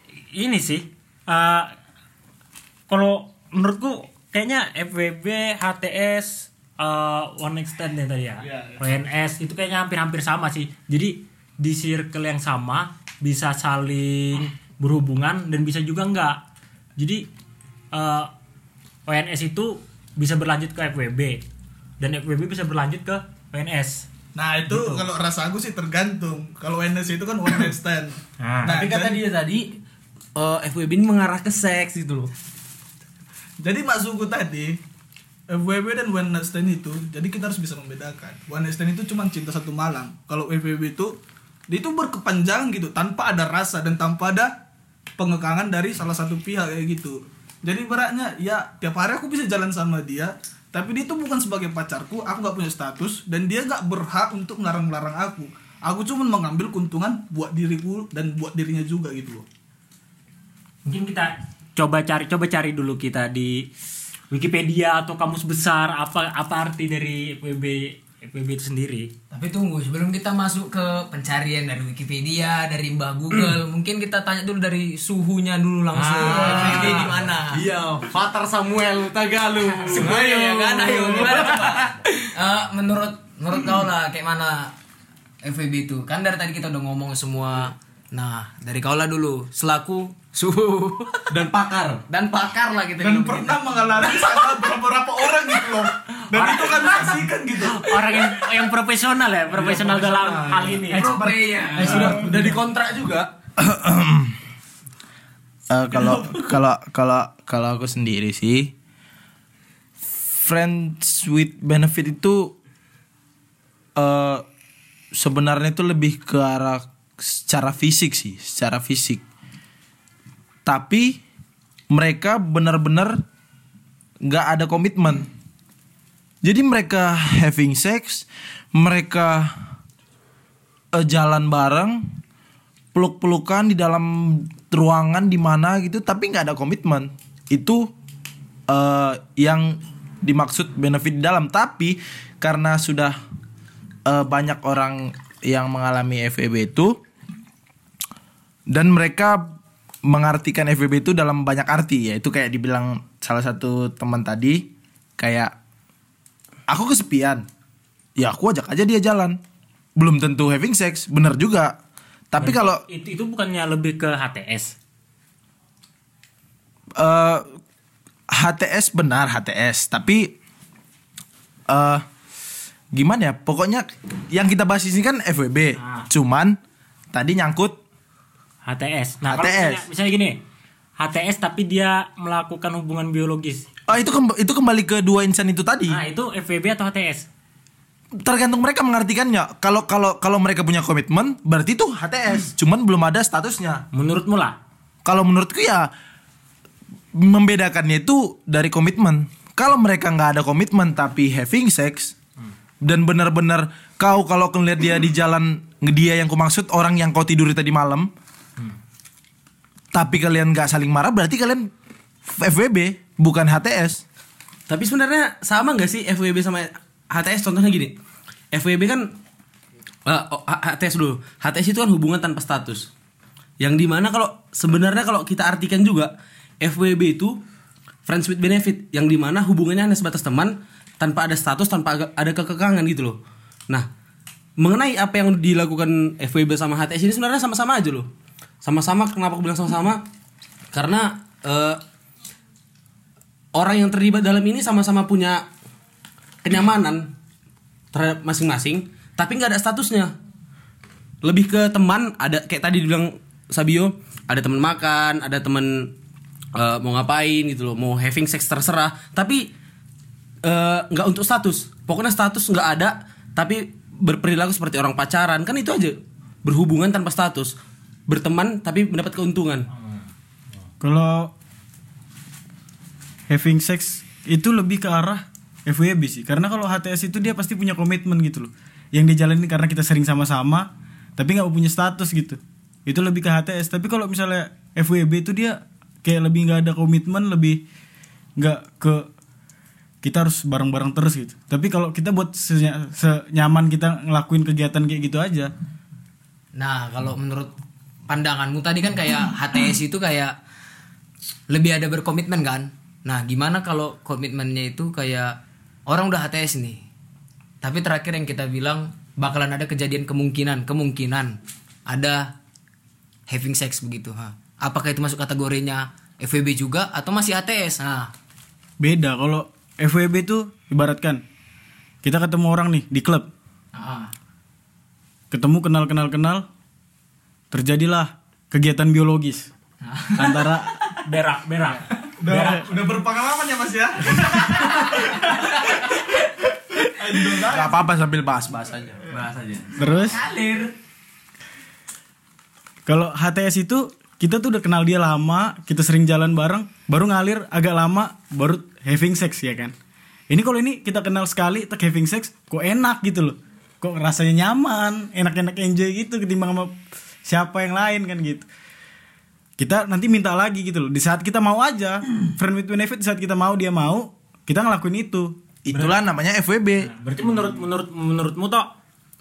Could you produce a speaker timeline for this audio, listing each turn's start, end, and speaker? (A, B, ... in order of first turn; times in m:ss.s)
0:00.3-0:01.7 A
0:02.9-0:16.4 A
0:08.4-0:09.0 B
0:17.0-0:17.2 A
0:17.9-0:18.3 A
0:19.1-0:21.4 A
0:22.0-0:24.0 A
0:24.4-0:29.2 B
0:24.7-0:25.1 A
0:28.4-0:28.8 A
0:28.7-0:29.8 C
0:30.4-0:32.3 C
0:33.6-0:34.8 B
0:35.5-0:41.1 B
0:41.7-0:44.5 B
0:45.2-0:59.4 B
1:00.9-1:03.6 A
1:04.3-1:09.1 A
1:09.3-1:17.6 D
1:15.9-1:21.8 C
1:16.4-1:16.7 B
1:16.6-1:16.9 A
1:19.9-1:24.7 D
1:25.4-1:31.3 D
1:31.3-1:32.0 C
1:32.1-1:33.8 D
1:33.0-1:38.4 B
1:36.3-1:41.2 A
1:39.6-1:41.3 B
1:40.9-1:42.4 D
1:41.7-1:43.3 C
1:43.6-1:44.4 E
1:45.7-1:48.7 E
1:50.1-1:52.5 E
1:54.0-1:54.4 E
1:55.2-1:59.2 E
2:00.6-2:01.2 E
2:01.9-2:03.2 E
2:04.3-2:05.3 E
2:06.4-2:09.6 E
2:10.9-2:12.1 E
2:12.9-2:17.9 E
2:18.7-2:23.2 E
2:24.1-2:27.0 E
2:28.7-2:29.6 E
2:30.1-2:35.5 E
2:36.7-2:37.4 E
2:38.2-2:39.4 E
2:40.0-2:41.7 E
2:42.3-2:42.8 E
2:42.4-2:44.7 A
2:47.0-2:47.5 E
2:48.3-2:50.4 E
2:51.7-2:52.0 E
2:52.9-2:56.6 E
2:55.8-2:56.1 A
2:57.1-2:57.8 E
2:58.6-3:00.4 A
2:59.3-2:59.8 E
3:01.0-3:03.7 A
3:03.9-3:06.0 E
3:05.9-3:07.3 A
3:08.2-3:13.8 E
3:13.9-3:14.6 A
3:15.0-3:15.9 E
3:17.1-3:22.1 E
3:22.8-3:28.1 E
3:29.9-3:31.7 E
3:32.2-3:34.0 E
3:34.7-3:38.0 C
3:38.5-3:39.1 C
3:40.1-3:42.9 C
3:43.6-3:47.4 C
3:48.1-3:53.2 C
3:54.6-3:58.1 C
3:58.6-4:00.0 C
4:00.7-4:01.8 C
4:03.5-4:05.4 C
4:06.4-4:07.1 C
4:07.9-4:10.1 C
4:11.2-4:15.9 C
4:16.6-4:19.5 C
4:20.4-4:27.6 C
4:28.1-4:29.7 C
4:29.8-4:30.0 A
4:30.8-4:31.3 F
4:33.3-4:47.6 F
4:48.4-4:49.1 F
4:50.0-4:55.5 F
4:56.6-4:57.6 D
4:58.1-5:00.4 D
5:01.5-5:06.8 D
5:07.6-5:11.4 D
5:11.9-5:12.3 D
5:13.3-5:18.1 D
5:18.8-5:21.2 F
5:22.0-5:23.3 F
5:23.7-5:24.1 D
5:25.3-5:26.4 F
5:27.5-5:29.5 F
5:29.8-5:30.5 D
5:30.2-5:30.7 F
5:31.0-5:32.6 A
5:32.2-5:35.5 B
5:36.8-5:37.8 B
5:37.4-5:39.2 E
5:39.1-5:40.2 C
5:39.8-5:40.2 F
5:40.0-5:40.7 D
5:42.9-5:49.7 F
5:50.3-5:56.7 F
5:57.2-5:58.5 F
5:59.6-6:05.3 F
6:05.6-6:06.9 E
6:05.7-6:06.0 A
6:06.8-6:08.7 A